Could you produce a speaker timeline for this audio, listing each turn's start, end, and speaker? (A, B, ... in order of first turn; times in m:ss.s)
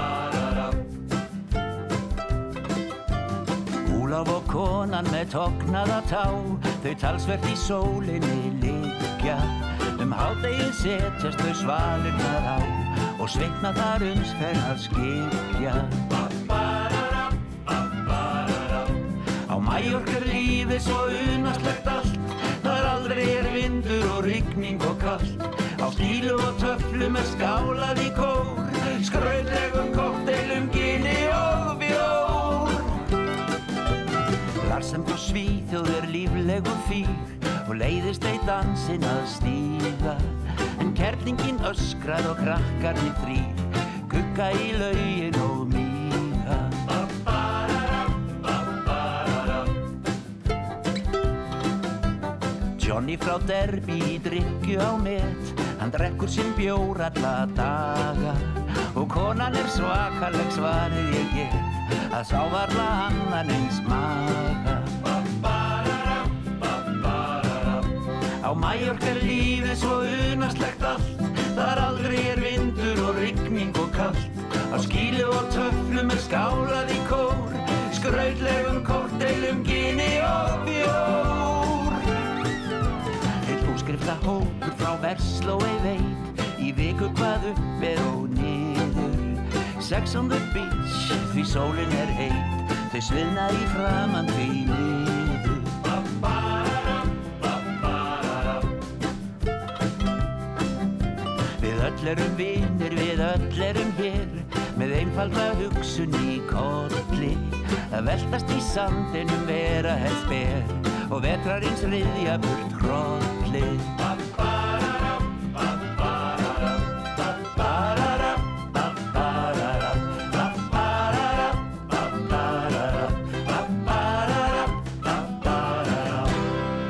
0:03.8-0:17.3 A
0:17.9-0:33.1 A
0:34.6-0:47.0 A
0:52.8-1:06.3 A
1:06.9-1:07.9 A
1:08.4-1:22.0 A
1:23.4-1:35.9 A
1:41.6-1:54.2 A
1:57.5-1:58.4 A
2:00.4-2:01.1 A
2:03.6-2:04.0 A